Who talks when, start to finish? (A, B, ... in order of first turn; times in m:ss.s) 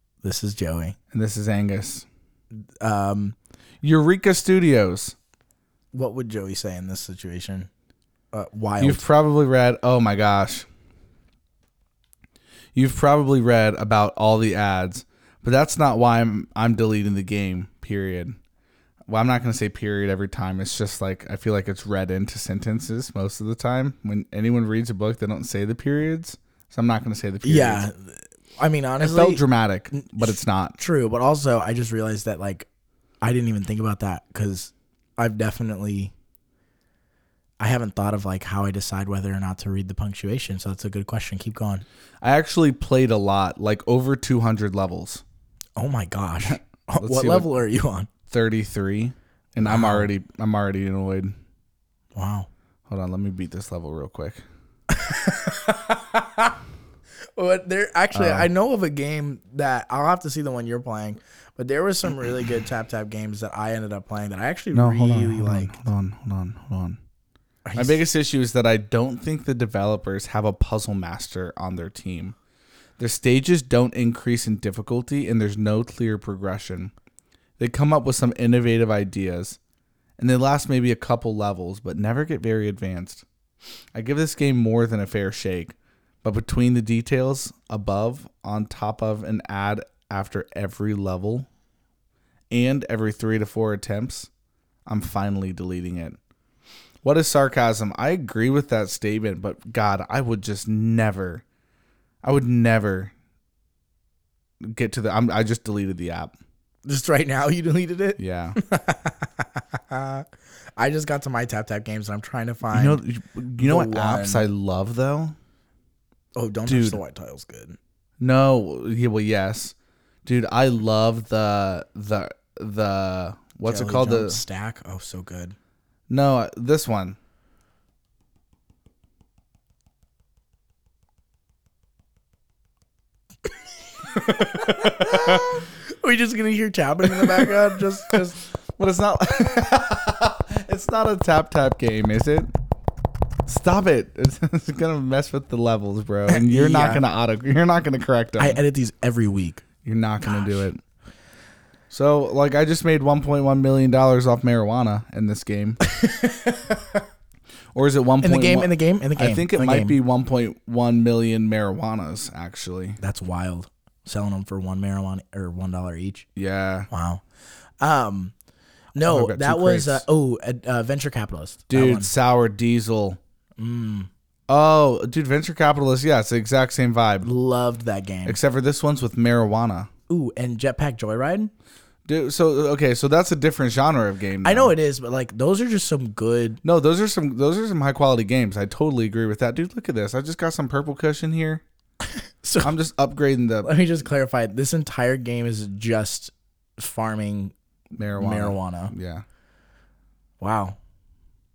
0:00.2-0:01.0 A
0:01.1-0:02.1 B
0:02.8-0:03.4 A
0:03.8-0:05.2 B
0:05.9-0:07.7 A
0:08.3-0:09.0 A
0:08.8-0:10.7 B
0:12.7-0:18.4 B
0:19.1-0:27.8 B
0:27.4-0:32.7 A
0:29.0-0:30.8 B
0:33.2-0:36.1 A
0:37.6-0:41.8 A
0:42.2-0:45.2 B
0:45.8-0:48.1 A
0:46.5-0:47.5 B
0:48.3-0:51.3 B
0:49.6-0:50.1 A
0:52.2-0:52.5 A
0:52.9-0:54.4 B
0:54.9-0:56.6 A
0:57.4-1:05.8 A
0:58.1-0:58.5 B
1:04.7-1:07.0 B
1:07.7-1:08.0 A
1:07.8-1:12.4 B
1:13.0-1:16.9 B
1:17.6-1:19.6 B
1:20.2-1:23.2 B
1:23.9-1:31.5 B
1:32.5-1:34.3 B
1:34.9-1:36.2 B
1:37.0-1:41.4 B
1:42.2-1:43.1 B
1:44.6-1:46.4 B
1:46.8-1:50.3 A
1:48.2-1:48.6 B
1:50.8-1:53.0 A
1:52.7-1:55.4 B
1:53.6-1:54.5 A
1:56.4-1:57.8 A
1:56.7-1:57.0 B
1:58.2-2:04.4 B
2:03.7-2:05.6 A
2:06.1-2:07.2 B
2:14.1-2:18.4 A
2:14.7-2:15.5 B
2:17.0-2:18.2 B
2:18.8-2:22.5 B
2:23.5-2:28.6 B
2:26.3-2:27.0 A
2:28.4-2:29.6 A
2:29.8-2:30.8 B
2:30.2-2:30.7 A
2:31.9-2:35.8 B
2:35.8-2:37.0 A
2:37.7-2:43.0 B
2:38.2-2:40.0 A
2:43.0-2:46.3 A
2:46.4-2:46.9 B
2:46.9-2:47.2 A
2:47.8-2:48.3 A
2:49.0-2:52.1 A
2:49.1-2:50.1 B
2:51.7-2:53.2 B
2:53.6-2:54.1 A
2:54.5-2:57.3 B
2:57.2-2:58.4 A
2:58.2-2:59.9 B
3:00.1-3:01.5 A
3:02.1-3:04.7 B
3:04.4-3:06.6 A
3:06.6-3:11.6 B
3:12.4-3:12.8 A
3:12.6-3:13.7 B
3:13.6-3:17.5 A
3:17.9-3:19.2 B
3:18.2-3:18.9 A
3:20.4-3:20.8 A